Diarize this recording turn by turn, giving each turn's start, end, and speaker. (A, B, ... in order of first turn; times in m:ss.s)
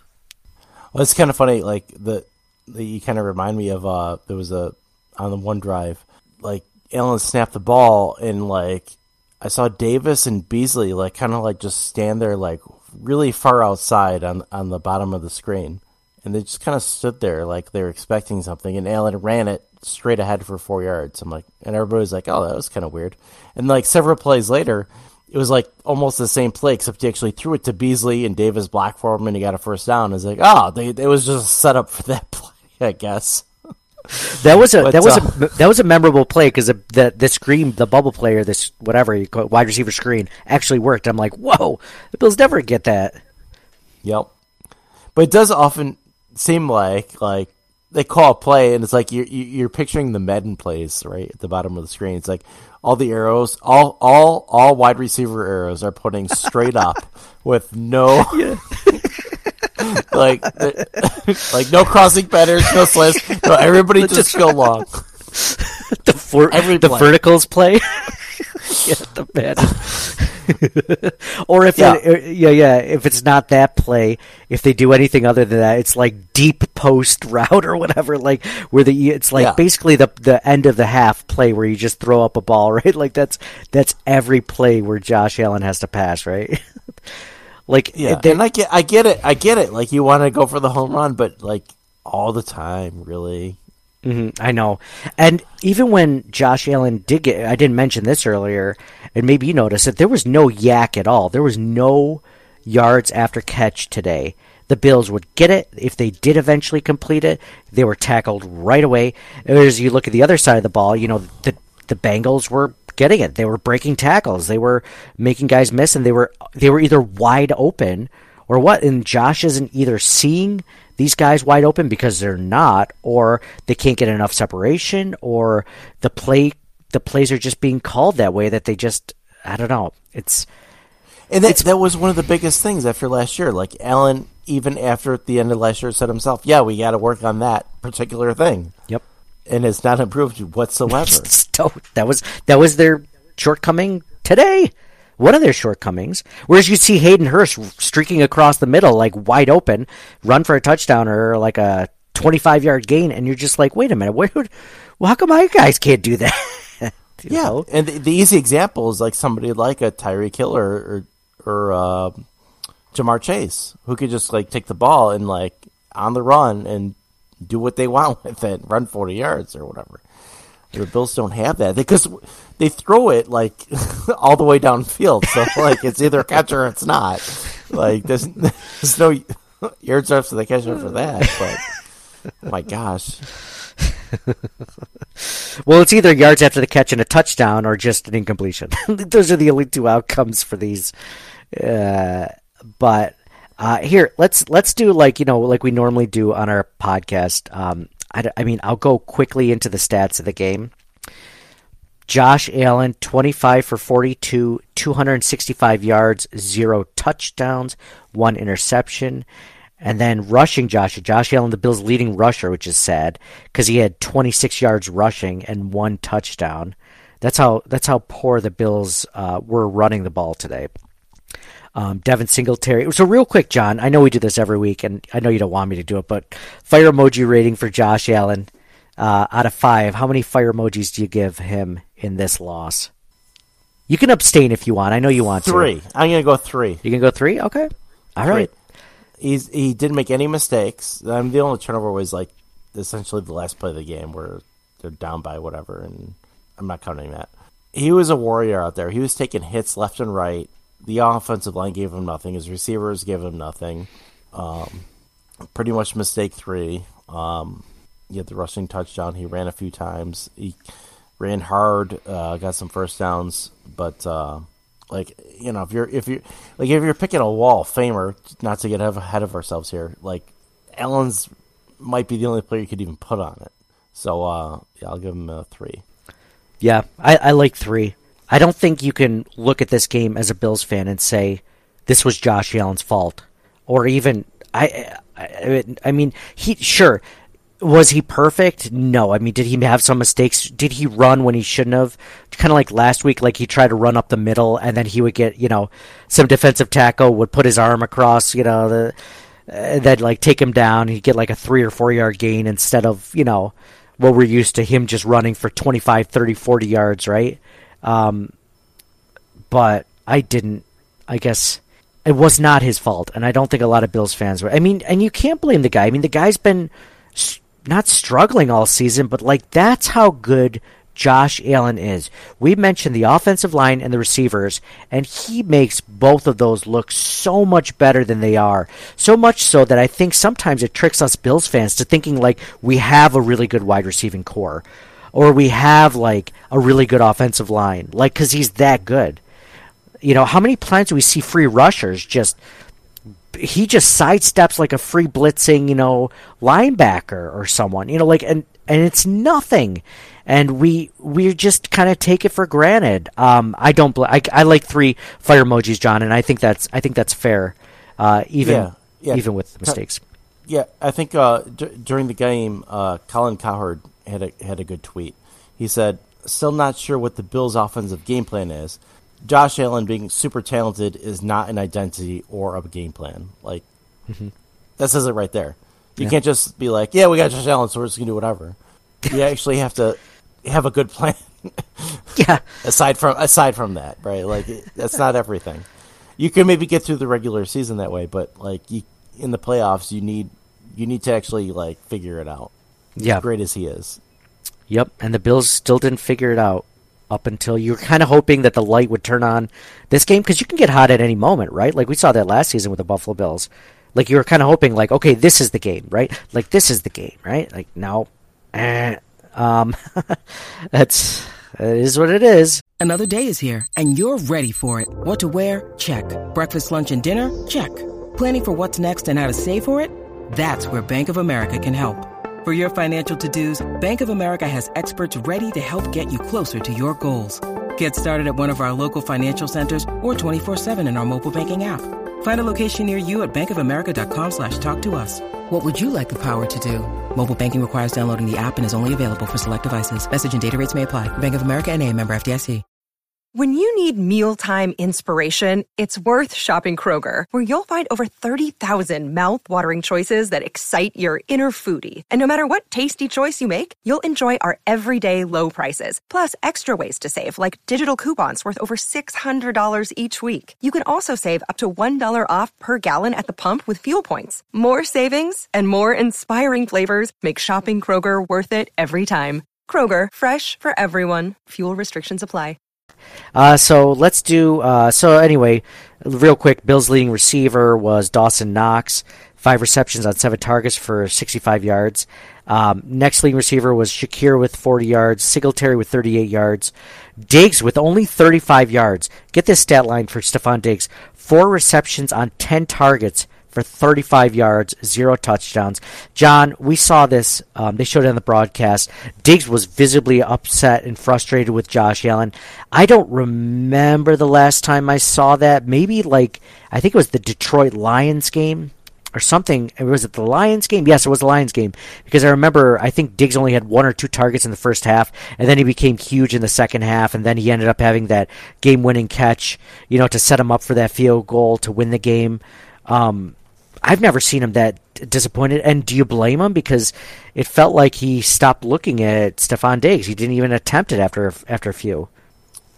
0:00.9-0:33.5 A
0:34.4-0:43.2 B
0:34.8-0:35.5 A
0:44.0-0:44.3 A
0:45.1-0:59.0 A
0:58.3-0:59.3 B
0:59.8-1:05.0 A
1:04.0-1:04.6 B
1:05.4-1:28.4 B
1:06.5-1:07.2 A
1:11.8-1:12.0 A
1:19.4-1:19.6 A
1:27.9-1:33.6 A
1:34.0-2:10.4 B
2:11.3-2:18.7 A
2:19.5-2:21.3 A
2:20.9-2:37.6 B
2:37.3-2:42.2 A
2:42.9-2:50.0 A
2:50.7-3:01.7 A
3:02.4-3:03.3 A
3:05.2-3:10.9 B
3:11.5-3:20.7 B
3:22.1-3:29.2 B
3:29.8-3:40.7 B
3:41.7-3:52.9 B
3:53.9-3:55.7 B
3:55.4-3:56.8 A
3:56.8-3:58.5 B
3:58.2-3:58.5 A
3:59.2-4:14.8 A
4:15.5-4:20.6 A
4:21.2-4:35.8 A
4:36.6-4:47.0 B
4:47.6-4:58.9 B
4:59.5-5:08.3 B
5:09.5-5:39.2 B
5:40.0-5:42.4 B
5:43.3-6:00.0 B
5:58.4-5:59.8 A
6:00.5-6:13.6 A
6:14.8-6:18.6 A
6:19.1-6:34.0 A
6:22.2-6:22.4 B
6:33.0-6:33.2 B
6:34.7-6:52.6 B
6:52.8-7:22.6 C
7:23.3-7:52.6 D
7:53.3-8:52.1 B